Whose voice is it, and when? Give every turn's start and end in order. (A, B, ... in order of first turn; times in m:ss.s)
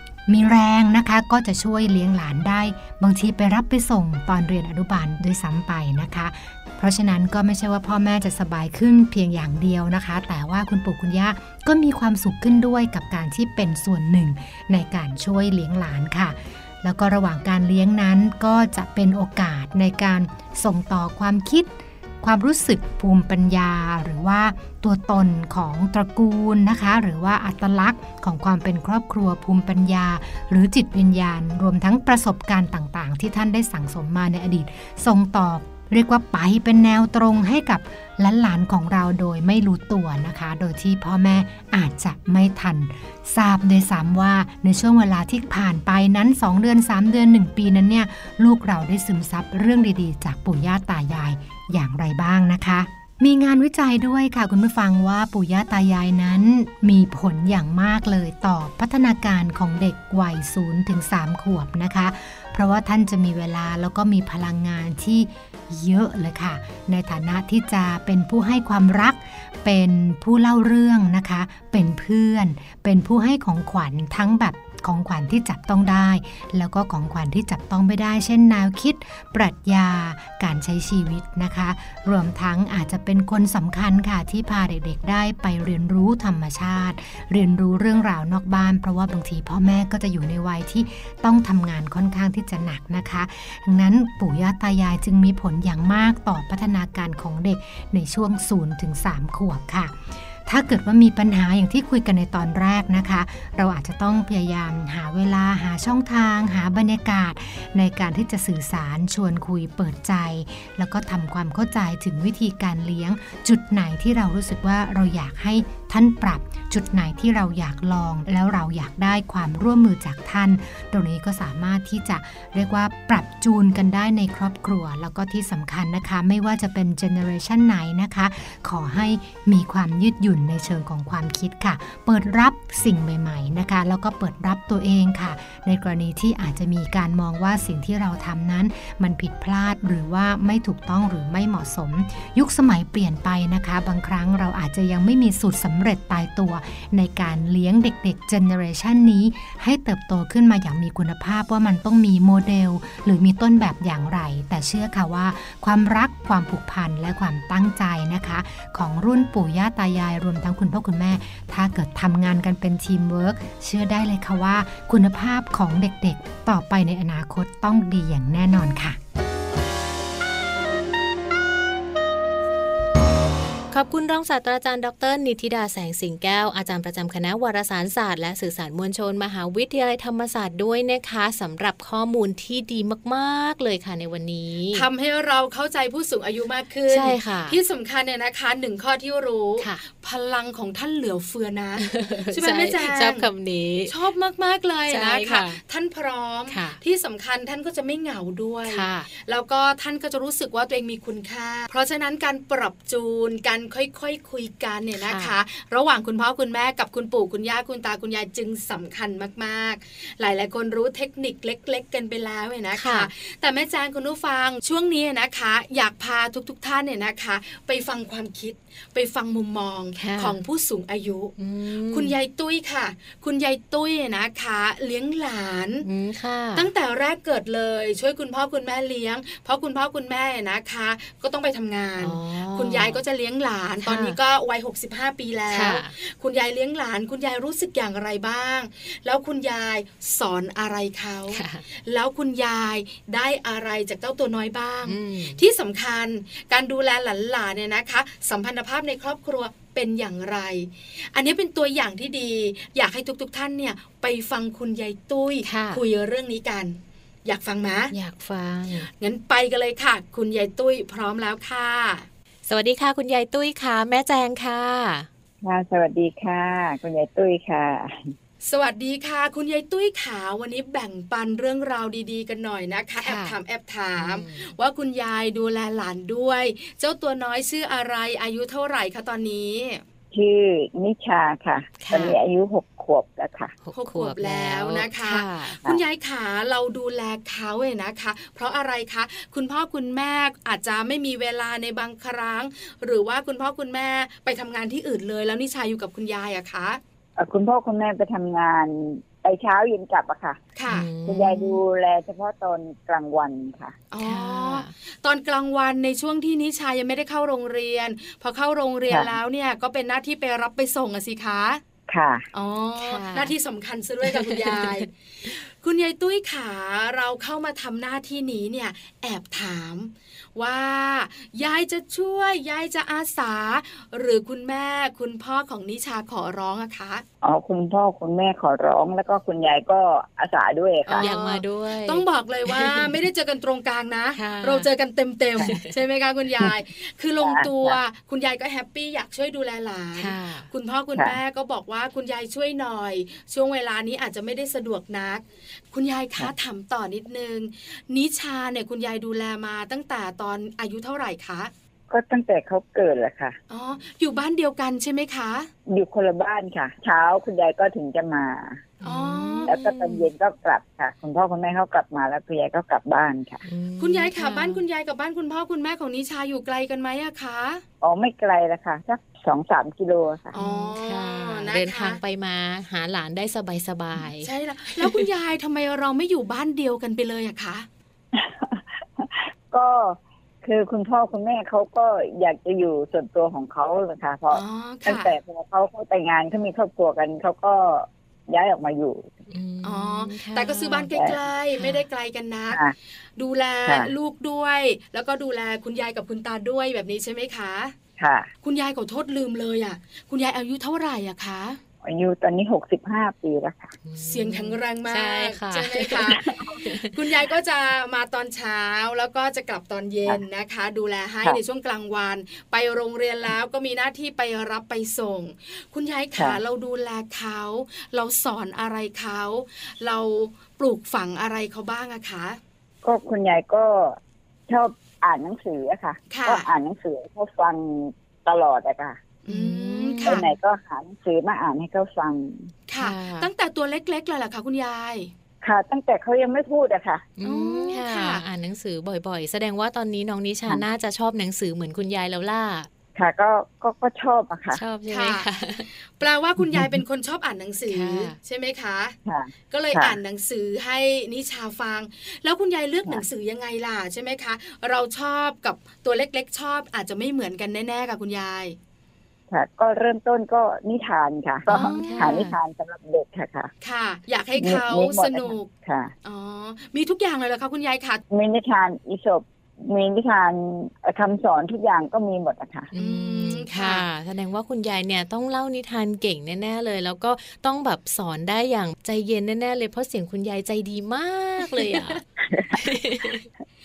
0:00.3-2:49.0 A
2:53.7-3:04.8 B
3:04.7-3:13.3 C
3:06.9-3:07.6 B
3:09.6-3:09.8 B
3:11.8-3:13.9 B
3:13.9-3:41.4 C
3:14.9-3:15.6 B
3:16.5-3:16.8 B
3:18.7-3:19.1 B
3:25.0-3:25.3 B
3:32.7-3:33.1 B
3:40.0-3:40.4 B
3:41.4-3:42.1 B
3:41.9-3:45.8 C
3:45.8-3:46.7 B
3:46.6-4:17.9 C
3:52.0-3:53.0 B
3:53.8-3:54.2 B
3:55.5-3:55.9 B
4:01.3-4:01.6 B
4:04.8-4:05.4 B
4:15.4-4:15.8 B
4:17.9-4:18.9 B
4:18.9-4:22.1 C
4:22.4-4:25.1 B
4:25.4-4:28.1 D
4:28.4-4:39.8 C
4:33.0-4:33.4 B
4:34.0-4:34.5 B
4:40.1-4:43.6 D
4:41.8-4:42.2 B
4:43.6-4:45.6 B
4:43.8-4:56.8 C
4:57.2-5:00.4 D
5:00.6-5:00.9 C
5:00.7-5:01.6 B
5:01.0-5:03.8 D
5:03.9-5:11.6 C
5:04.0-5:04.7 B
5:08.9-5:09.2 D
5:11.9-5:12.2 D
5:12.3-5:27.0 C
5:12.8-5:13.3 B
5:14.0-5:15.3 B
5:27.2-5:31.1 D
5:30.8-5:51.5 C
5:31.0-5:32.9 B
5:34.2-5:34.7 B
5:35.4-5:35.7 B
5:37.2-5:37.8 D
5:40.0-5:40.5 B
5:51.9-5:53.4 D
5:53.5-5:55.5 C
5:55.7-5:58.6 D
5:58.8-6:00.1 B
5:58.8-5:59.5 C
5:59.4-6:03.4 D
6:03.4-6:04.6 B
6:03.8-6:07.6 C
6:07.8-6:10.4 D
6:10.3-6:12.0 C
6:10.3-6:15.0 B
6:14.2-6:17.7 C
6:18.1-6:29.1 D
6:24.3-6:25.1 C
6:29.3-6:30.9 B
6:29.6-6:32.6 C
6:31.6-6:31.8 B
6:33.2-6:37.7 C
6:33.7-6:33.9 D
6:38.0-6:38.3 D
6:38.4-6:41.6 C
6:41.8-6:43.7 D
6:43.8-6:46.9 B
6:44.0-6:46.2 C
6:46.1-6:46.6 D
6:46.9-7:02.4 C
7:02.8-7:04.0 D
7:04.5-7:09.0 D
7:06.1-7:06.4 C
7:09.2-7:10.3 C
7:09.3-7:10.2 B
7:10.0-7:12.5 D
7:12.7-7:15.1 C
7:12.8-7:13.3 B
7:15.4-7:17.1 D
7:17.2-7:22.7 B
7:17.2-7:18.2 C
7:23.0-7:24.6 D
7:24.5-7:25.7 B
7:24.9-7:25.2 C
7:25.9-7:29.0 C
7:27.7-7:28.2 B
7:29.1-7:30.0 D
7:29.5-7:38.6 C
7:39.3-7:43.5 D
7:41.5-7:42.2 C
7:41.5-7:42.4 B
7:43.6-7:45.5 C
7:44.4-7:45.9 D
7:46.0-7:48.0 C
7:48.1-7:52.7 D
7:52.7-8:02.0 B
7:52.8-7:53.8 C
8:02.2-8:02.7 D
8:02.5-8:03.2 B